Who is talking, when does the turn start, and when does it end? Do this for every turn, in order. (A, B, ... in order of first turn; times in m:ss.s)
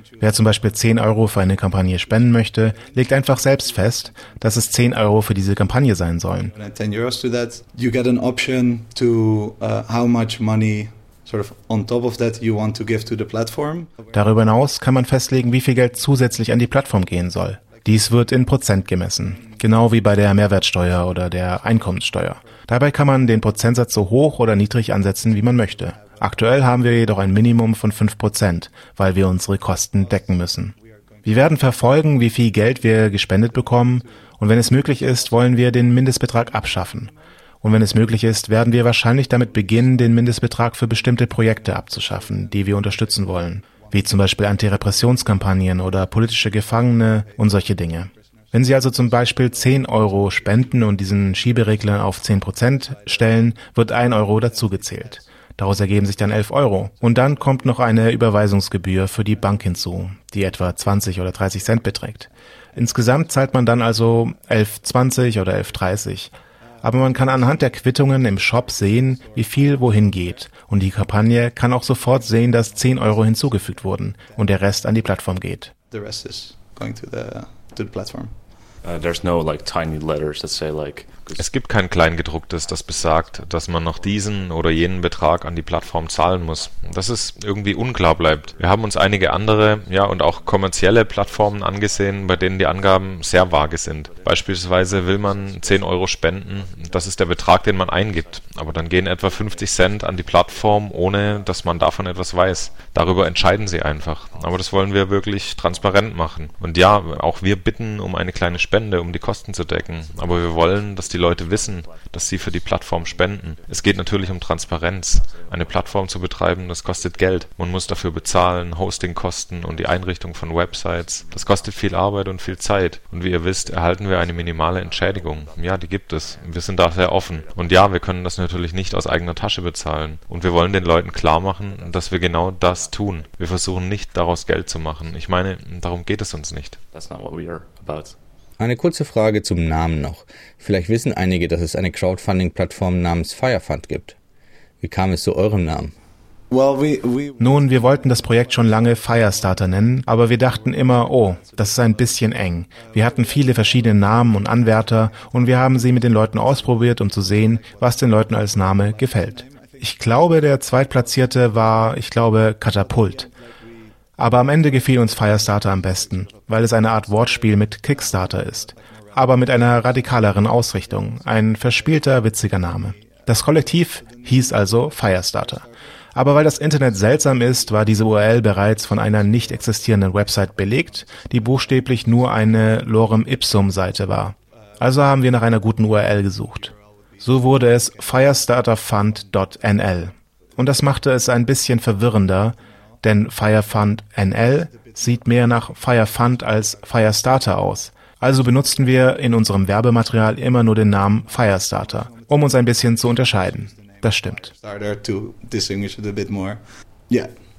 0:00.2-0:06.5 A
0:06.5-0:13.9 B
0:14.1-1:15.7 A
1:15.9-1:18.4 B
1:18.8-1:21.5 C
1:21.4-2:16.8 D
2:16.9-2:18.2 C
2:18.6-2:24.2 E
2:24.8-2:25.9 E
2:26.5-2:27.4 B
2:27.4-2:43.3 A
2:44.2-3:24.5 A
3:24.6-3:27.3 B